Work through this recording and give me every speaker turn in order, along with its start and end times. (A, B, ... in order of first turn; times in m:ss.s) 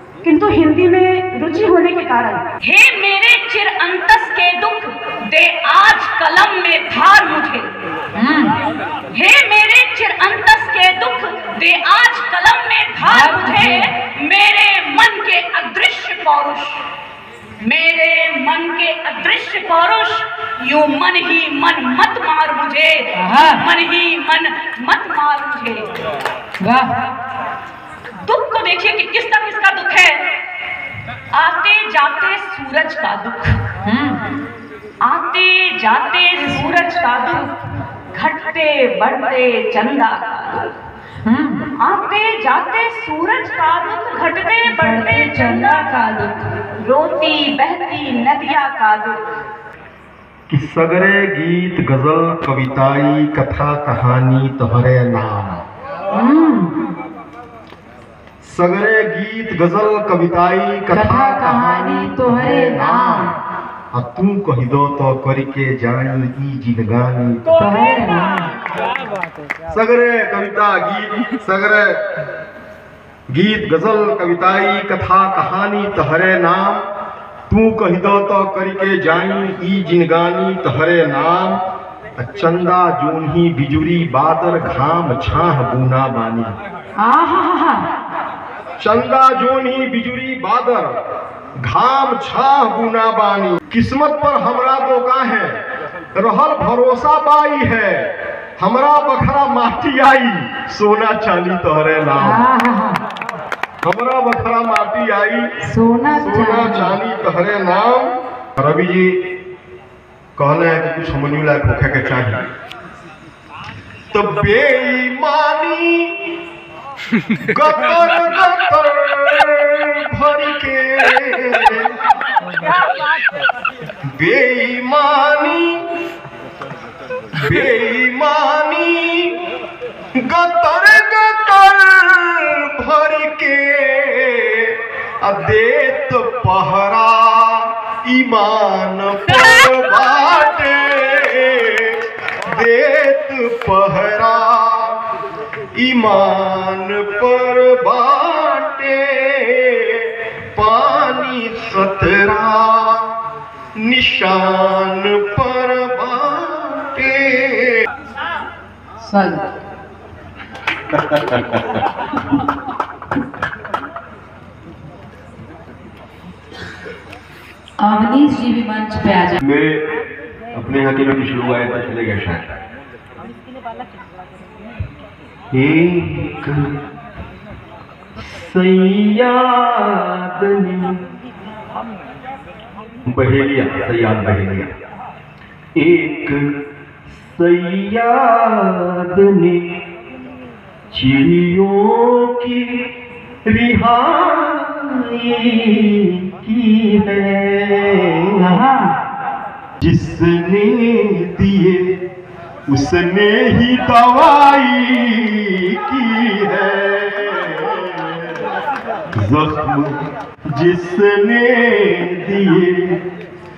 0:00.2-0:07.7 A
0:08.2-0:08.6 B
0:09.1-0:16.8 A
0:13.0-0:13.9 B
0:17.6-0:25.9 A
0:23.1-0:23.6 B
0:26.6-0:27.0 B
0:28.2-0:30.2 A
0:31.3-0:33.6 A
0:33.8-0:34.3 B
0:35.0-0:37.5 A
0:36.4-0:36.7 B
0:38.1-0:40.7 A
0:41.2-0:41.6 B
0:41.8-0:49.2 A
0:44.7-0:46.5 B
0:50.5-0:55.6 C
0:56.1-0:56.8 B
0:58.4-1:03.3 C
1:00.9-1:03.3 B
1:03.9-1:07.6 C
1:07.6-1:08.5 B
1:09.7-1:12.0 C
1:13.3-1:16.8 C
1:17.5-1:21.6 C
1:22.2-1:26.6 C
1:27.0-1:27.8 B
1:28.8-1:30.9 C
1:31.6-1:35.6 C
1:36.2-1:38.1 C
1:38.6-1:42.4 C
1:42.2-1:43.0 B
1:43.8-1:45.5 C
1:45.6-1:47.0 B
1:46.1-1:49.2 C
1:50.4-1:52.4 C
1:54.1-1:56.1 C
1:57.5-2:01.9 C
2:04.1-2:05.8 C
2:07.3-2:09.3 C
2:10.2-2:25.0 C
2:19.4-2:19.7 B
2:25.7-2:33.1 C
2:33.8-2:37.8 C
2:39.0-2:39.4 B
2:41.0-2:41.6 C
2:47.8-2:49.4 B
2:49.4-2:49.8 C
2:50.5-2:52.6 C
2:55.5-2:56.7 C
2:58.2-3:01.0 C
3:03.1-3:04.7 C
3:05.8-3:06.4 C
3:07.3-3:09.7 C
3:10.9-3:12.8 C
3:13.5-3:18.6 C
3:18.5-3:18.9 B
3:19.8-3:22.0 C
3:22.7-3:28.4 C
3:29.2-3:33.0 C